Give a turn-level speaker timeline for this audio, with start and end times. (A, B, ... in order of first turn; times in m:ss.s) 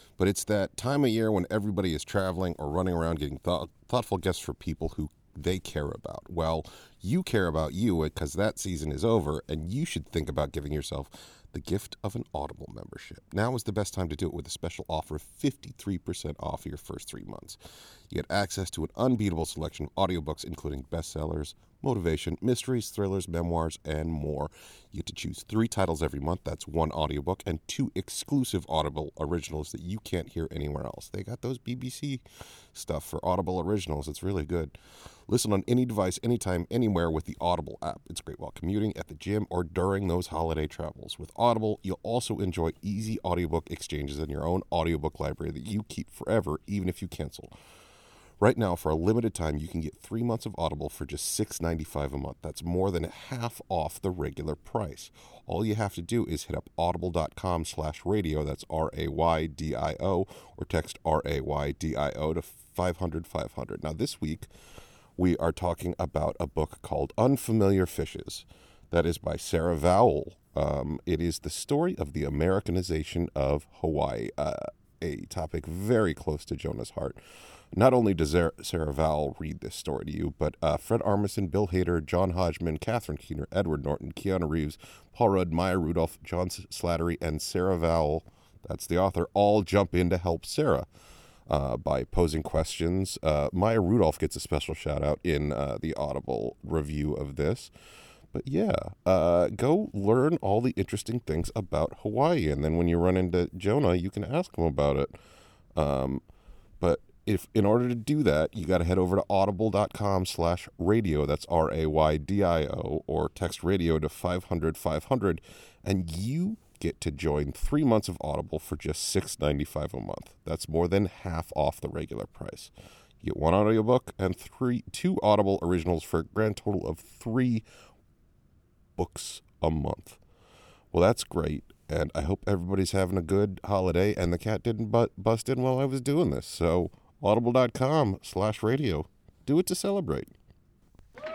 0:00.2-0:17.6 A
0:18.1-0:32.2 A
0:32.7-0:34.7 A
0:35.3-0:47.5 A
0:48.4-1:04.5 A
1:05.2-1:17.2 A
1:17.7-1:30.9 A
1:31.5-1:37.7 A
1:38.3-1:45.1 A
1:45.7-1:46.2 A
1:46.8-2:07.6 A
2:09.0-2:10.2 A
2:10.9-2:20.3 A